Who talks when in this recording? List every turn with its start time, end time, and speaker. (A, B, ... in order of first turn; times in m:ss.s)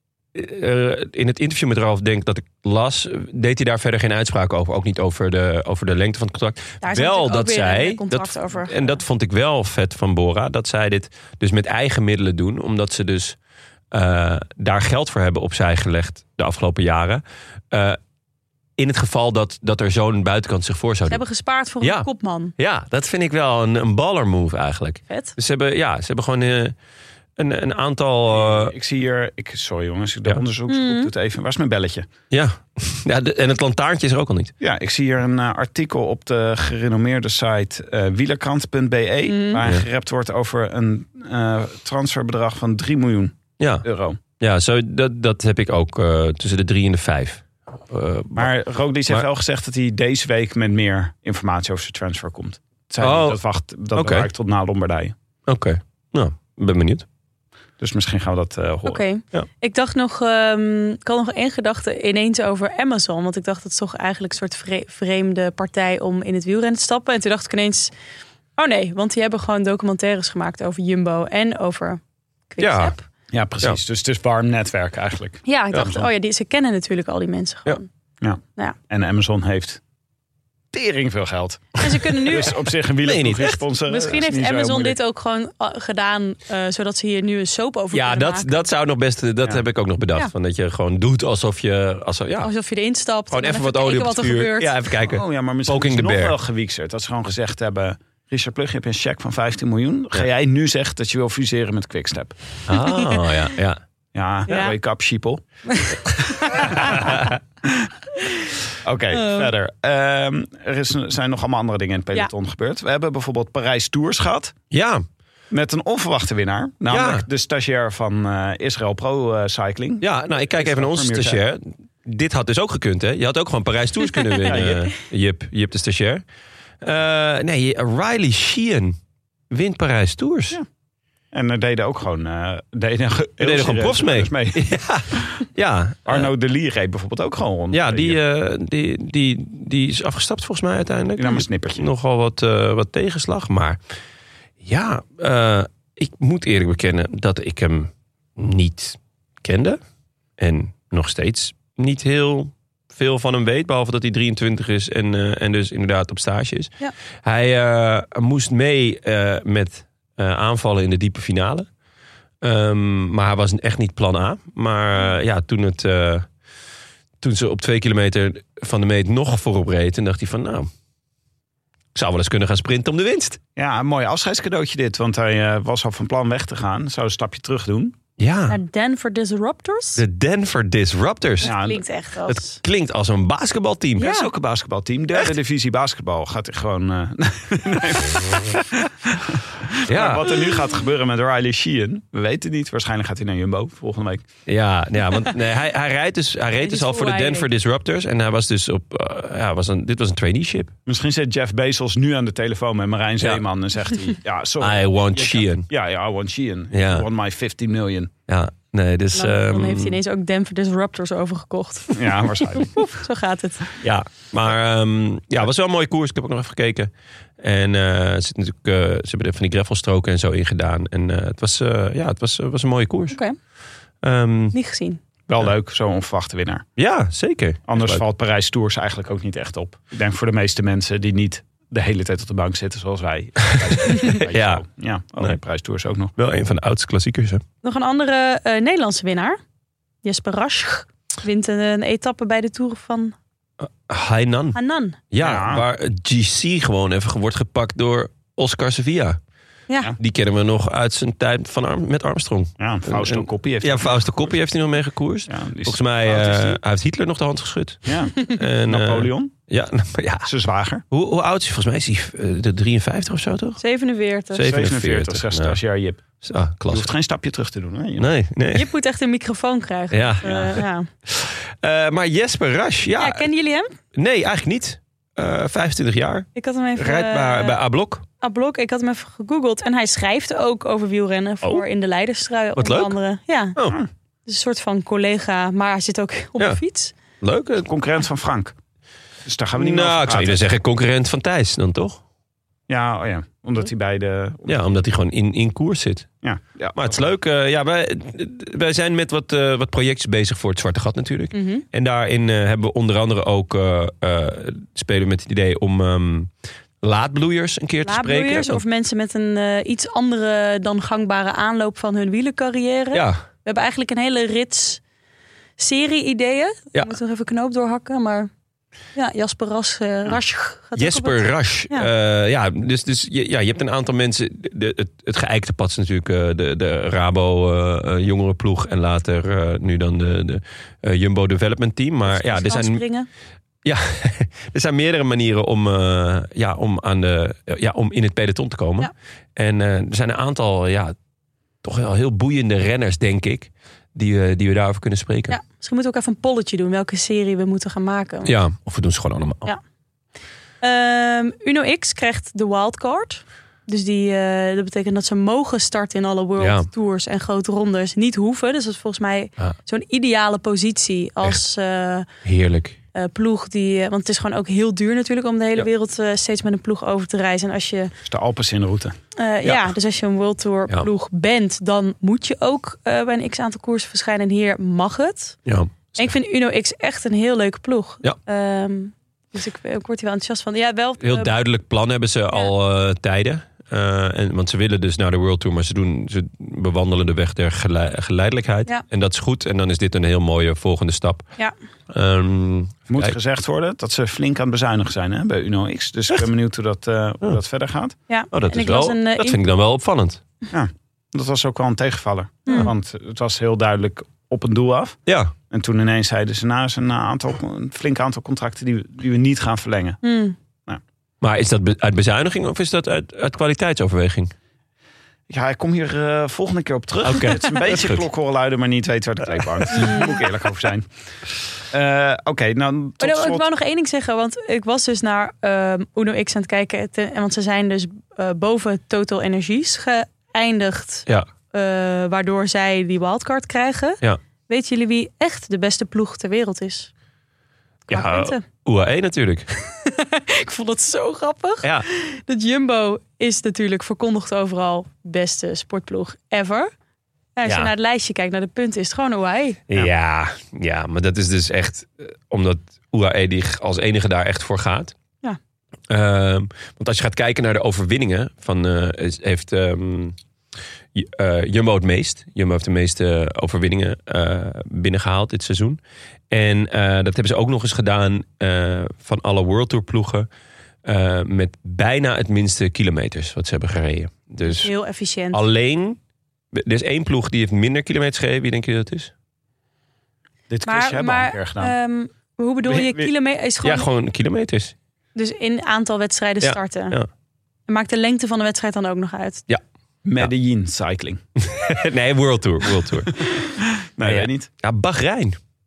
0:00.3-0:13.4 A
0:06.8-0:09.0 B
0:13.9-0:18.0 A
0:18.8-0:21.2 A
0:21.1-0:22.5 B
0:21.8-0:26.7 A
0:25.1-0:25.3 B
0:27.4-0:28.7 A
0:28.3-0:32.1 C
0:30.7-0:31.1 B
0:32.3-0:34.5 A
0:34.6-0:44.2 C
0:39.2-0:39.6 B
0:43.6-0:43.8 A
0:44.4-0:48.5 A
0:48.4-0:55.1 C
0:53.0-0:53.4 A
0:53.9-0:54.3 A
0:55.5-0:57.0 A
0:57.8-0:59.0 C
0:58.8-1:07.9 B
1:08.6-1:13.0 B
1:12.6-1:12.9 A
1:13.3-1:16.1 C
1:15.4-1:17.9 B
1:18.2-1:19.8 C
1:20.7-1:25.0 C
1:21.8-1:22.5 B
1:23.0-1:23.6 A
1:23.8-1:28.6 B
1:27.9-1:32.5 A
1:32.4-1:34.7 B
1:33.3-1:36.4 A
1:35.0-1:42.4 C
1:42.7-1:43.8 A
1:42.8-1:43.1 B
1:44.1-1:45.4 C
1:44.5-1:44.7 B
1:45.7-1:47.0 B
1:46.0-1:47.9 C
1:46.9-1:47.3 A
1:48.8-1:54.5 C
1:49.1-1:49.5 B
1:54.7-1:55.0 A
1:55.5-2:01.4 C
1:56.9-1:57.2 A
2:00.0-2:06.2 A
2:04.5-2:04.8 C
2:06.8-2:09.0 A
2:09.5-2:10.6 A
2:11.3-2:15.4 C
2:13.4-2:16.3 A
2:16.0-2:18.2 C
2:17.7-2:23.8 A
2:21.2-2:21.9 C
2:24.6-2:29.8 A
2:30.4-2:41.7 A
2:42.4-2:46.3 A
2:47.2-2:50.7 A
2:51.9-2:53.4 A
2:53.6-2:58.0 C
2:58.2-2:58.6 A
2:58.5-3:00.0 B
3:00.0-3:01.6 A
3:01.4-3:01.8 C
3:01.4-3:02.6 B
3:02.2-3:04.1 A
3:04.0-3:04.3 B
3:04.0-3:14.2 C
3:09.8-3:10.3 A
3:14.5-3:20.7 A
3:16.6-3:17.5 B
3:20.8-3:28.1 C
3:24.6-3:25.7 A
3:26.7-3:27.0 A
3:28.3-3:30.0 A
3:29.1-3:33.6 B
3:31.9-3:32.8 C
3:33.8-3:43.2 A
3:43.1-3:43.4 B
3:44.0-3:44.5 A
3:44.5-3:45.0 B
3:45.3-3:46.6 C
3:46.8-3:48.0 A
3:47.7-3:56.1 C
3:53.4-3:54.6 A
3:56.2-3:57.4 A
3:57.6-3:59.4 B
4:00.0-4:03.1 B
4:03.6-4:04.6 A
4:04.5-4:05.0 B
4:05.1-4:09.2 A
4:05.2-4:05.6 C
4:10.0-4:20.3 A
4:12.6-4:14.3 C
4:15.3-4:16.6 C
4:17.8-4:19.3 C
4:20.2-4:20.8 C
4:20.9-4:23.6 A
4:23.6-4:24.5 B
4:24.3-4:25.6 A
4:24.4-4:26.0 C
4:26.2-4:26.9 A
4:26.7-4:28.1 C
4:28.0-4:28.7 A
4:28.5-4:30.9 B
4:29.9-4:33.3 A
4:33.0-4:33.7 B
4:33.9-4:38.0 A
4:36.3-4:37.6 B
4:38.2-4:43.6 B
4:42.6-4:42.9 A
4:43.6-4:43.9 C
4:44.2-4:46.9 B
4:47.2-4:47.7 A
4:47.6-4:48.5 C
4:49.2-4:50.5 C
4:49.6-4:52.0 A
4:52.7-4:54.7 C
4:54.5-4:56.1 A
4:56.2-4:57.1 C
4:56.7-5:08.6 A
5:01.3-5:01.6 B
5:07.8-5:14.8 B
5:15.6-5:18.3 B
5:18.9-5:21.9 B
5:20.8-5:32.8 A
5:32.1-5:33.1 B
5:33.6-5:40.9 A
5:41.6-5:45.4 A
5:45.3-5:48.3 B
5:48.2-5:49.5 A
5:50.6-6:02.1 B
5:56.4-5:56.7 A
6:02.2-6:02.8 A
6:02.9-6:07.9 B
6:08.0-6:09.0 C
6:09.1-6:15.4 B
6:09.4-6:09.7 A
6:15.4-6:16.1 A
6:16.0-6:21.3 B
6:21.0-6:31.3 A
6:31.9-6:33.1 A
6:32.9-6:37.9 C
6:38.1-6:39.4 B
6:38.3-6:40.2 A
6:40.5-6:45.0 C
6:45.1-6:45.3 A
6:45.5-6:50.0 C
6:50.0-6:50.4 B
6:51.2-6:54.3 A
6:55.3-7:00.9 C
6:57.0-6:58.0 A
6:59.7-7:00.1 B
7:01.7-7:03.4 C
7:03.0-7:16.9 B
7:17.9-7:18.4 B
7:17.9-7:19.5 A
7:19.7-7:26.7 B
7:27.4-7:29.6 B
7:27.4-7:27.7 A
7:29.7-7:34.9 A
7:35.9-7:40.1 A
7:40.9-7:45.8 A
7:46.3-7:50.3 A
7:50.8-7:54.7 A
7:54.4-7:55.4 B
7:55.3-7:56.0 A
7:56.5-7:59.1 A
8:00.5-8:01.7 C
8:00.6-8:03.9 B
8:02.8-8:03.1 A
8:03.6-8:04.7 A
8:05.2-8:07.0 B
8:06.4-8:07.1 A
8:07.7-8:09.4 B
8:10.0-8:11.2 C
8:11.4-8:13.2 A
8:13.6-8:14.5 C
8:14.0-8:15.4 A